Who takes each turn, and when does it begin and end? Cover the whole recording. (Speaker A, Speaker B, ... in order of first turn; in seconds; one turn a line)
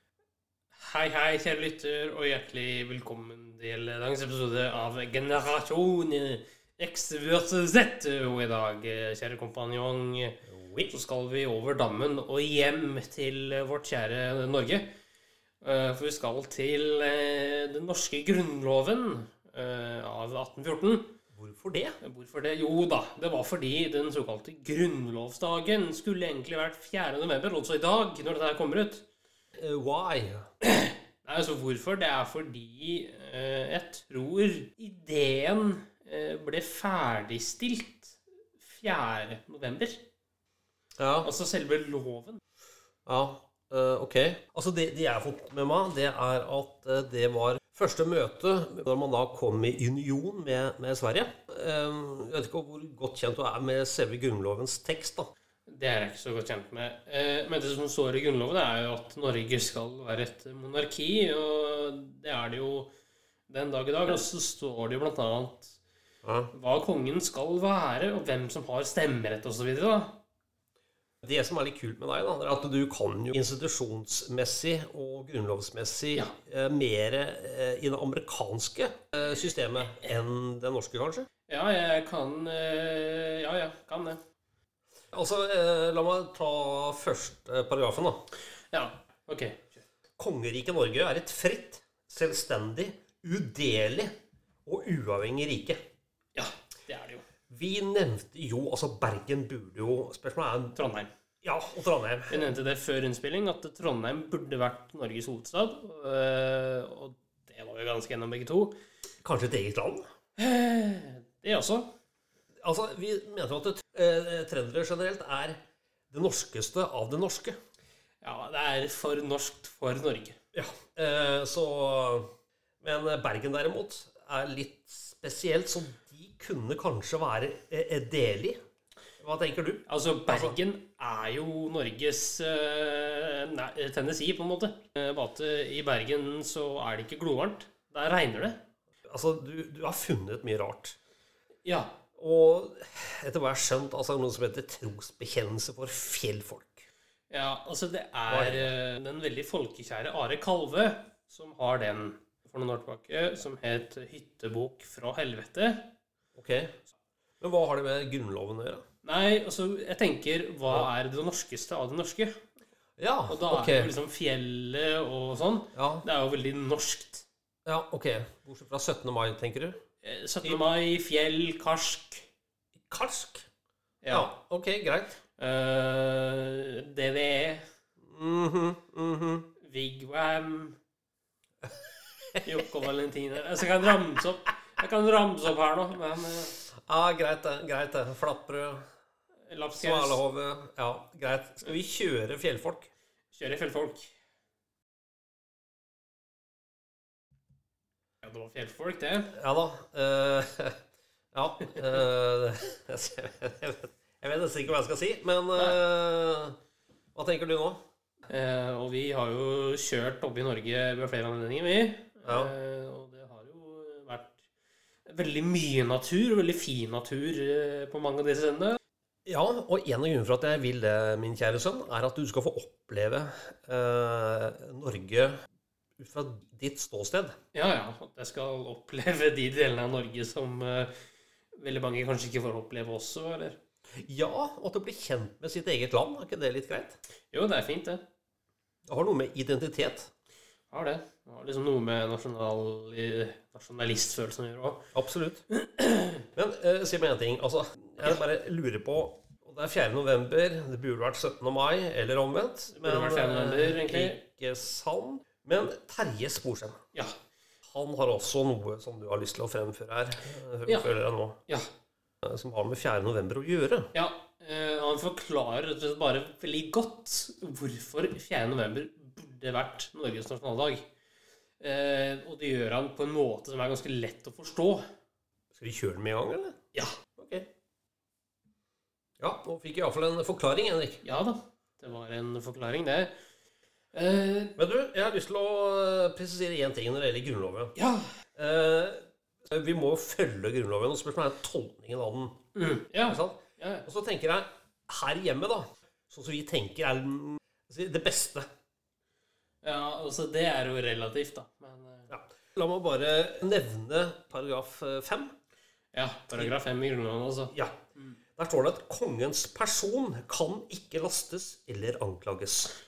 Speaker A: 0.8-14.9
Speaker B: 10.5-10.9
Speaker A: 15.6-21.1
Speaker B: 21.3-21.9
Speaker A: 22.0-29.1
Speaker B: 29.6-30.4
Speaker A: 30.6-40.0
Speaker B: 41.0-41.3
Speaker A: 41.2-42.4
Speaker B: 43.0-55.3
Speaker A: 55.7-62.9
Speaker A: 63.5-65.8
Speaker B: 66.2-66.5
Speaker A: 66.5-70.2
Speaker B: 71.2-81.3
Speaker A: 81.5-84.2
Speaker B: 85.1-88.2
Speaker A: 88.7-89.8
Speaker B: 90.2-94.1
Speaker B: 94.7-95.8
Speaker A: 96.3-97.2
Speaker B: 97.5-100.8
Speaker A: 100.8-101.1
Speaker B: 101.4-102.5
Speaker A: 102.3-108.8
Speaker B: 109.2-110.0
Speaker A: 110.4-111.9
Speaker B: 112.6-115.6
Speaker B: 116.1-117.6
Speaker A: 118.2-120.4
Speaker B: 120.5-122.3
Speaker B: 122.8-128.6
Speaker B: 129.2-130.6
Speaker A: 129.9-138.6
Speaker B: 139.1-140.9
Speaker A: 141.6-141.9
Speaker B: 142.2-146.9
Speaker A: 147.3-155.9
Speaker B: 148.3-148.7
Speaker B: 156.4-156.7
Speaker B: 157.4-158.8
Speaker A: 159.0-162.3
Speaker B: 163.0-163.9
Speaker A: 163.3-167.2
Speaker B: 165.8-166.0
Speaker B: 167.7-169.8
Speaker A: 170.0-172.2
Speaker B: 172.9-173.4
Speaker A: 174.0-174.3
Speaker B: 174.1-175.2
Speaker A: 175.4-177.7
Speaker B: 178.1-179.5
Speaker A: 179.6-180.8
Speaker A: 182.4-186.6
Speaker B: 186.8-188.8
Speaker A: 189.5-190.2
Speaker B: 189.8-192.9
Speaker A: 193.3-194.1
Speaker A: 198.2-199.3
Speaker B: 199.4-200.8
Speaker B: 201.3-206.6
Speaker B: 207.1-207.8
Speaker A: 208.3-214.4
Speaker B: 212.2-212.5
Speaker A: 215.1-218.8
Speaker B: 219.2-225.3
Speaker B: 226.0-227.4
Speaker A: 227.5-230.9
Speaker A: 231.6-233.6
Speaker B: 234.0-237.0
Speaker A: 237.3-238.0
Speaker B: 238.9-240.1
Speaker A: 240.7-244.9
Speaker B: 244.9-245.4
Speaker A: 245.6-246.2
Speaker B: 246.3-256.8
Speaker A: 252.7-254.2
Speaker B: 257.7-261.4
Speaker A: 260.7-260.9
Speaker B: 262.2-263.9
Speaker A: 263.9-270.9
Speaker A: 271.6-274.9
Speaker B: 275.5-276.6
Speaker B: 277.2-277.5
Speaker B: 279.2-281.0
Speaker A: 281.0-283.1
Speaker A: 283.9-284.6
Speaker B: 284.6-287.8
Speaker A: 287.8-288.1
Speaker B: 288.4-292.4
Speaker A: 292.6-293.9
Speaker B: 293.1-298.5
Speaker A: 299.6-302.1
Speaker B: 302.1-305.3
Speaker A: 305.9-308.2
Speaker B: 308.4-312.8